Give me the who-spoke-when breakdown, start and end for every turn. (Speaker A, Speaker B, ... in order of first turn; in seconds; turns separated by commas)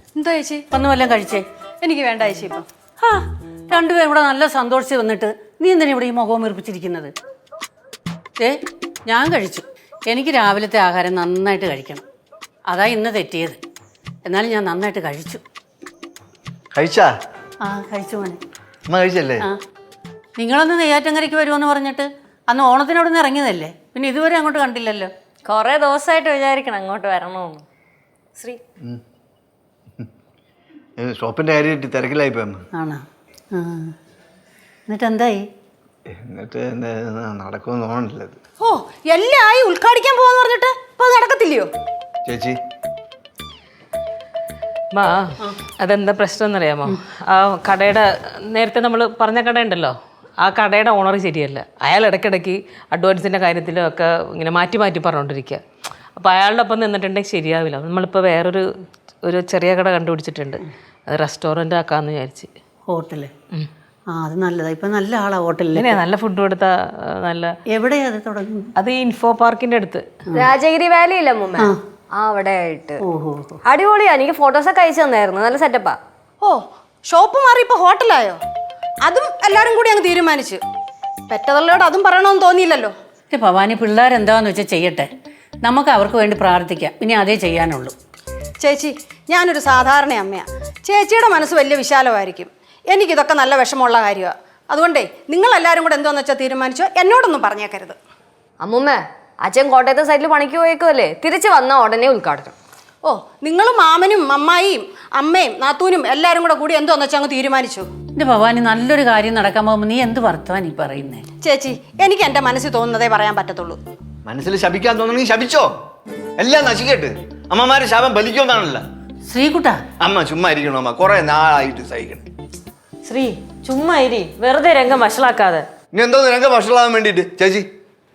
Speaker A: 0.1-0.7, Speaker B: 0.7-1.4, Speaker A: 1.8-2.6, Speaker B: 3.0-7.1, Speaker B: 9.1-12.0, Speaker B: 12.7-13.6, Speaker B: 14.2-15.4, Speaker C: 16.7-17.1, Speaker B: 17.6-18.4, Speaker C: 18.9-19.4, Speaker B: 20.4-25.1, Speaker D: 25.4-27.6, Speaker C: 31.0-32.6, Speaker B: 32.8-33.0, Speaker B: 33.5-33.9, Speaker B: 34.9-35.4, Speaker C: 36.1-38.4, Speaker A: 38.6-41.7, Speaker C: 42.2-42.5, Speaker E: 44.9-55.6, Speaker E: 56.2-58.7, Speaker E: 59.2-62.5, Speaker B: 62.9-63.3, Speaker B: 64.1-66.0, Speaker E: 65.8-67.5, Speaker B: 67.7-68.7, Speaker E: 68.8-70.0, Speaker D: 70.3-73.0, Speaker B: 73.0-73.6, Speaker D: 73.6-76.0, Speaker A: 76.4-78.4, Speaker A: 79.0-80.6, Speaker A: 81.3-82.9, Speaker B: 83.3-85.1, Speaker B: 85.6-87.9, Speaker A: 88.6-98.0, Speaker D: 98.6-102.5, Speaker A: 103.0-107.9, Speaker B: 108.2-111.2, Speaker A: 111.4-113.8, Speaker C: 114.2-115.7, Speaker C: 116.4-118.8, Speaker B: 119.3-119.8, Speaker C: 120.0-122.2, Speaker D: 123.0-125.7, Speaker C: 125.9-127.7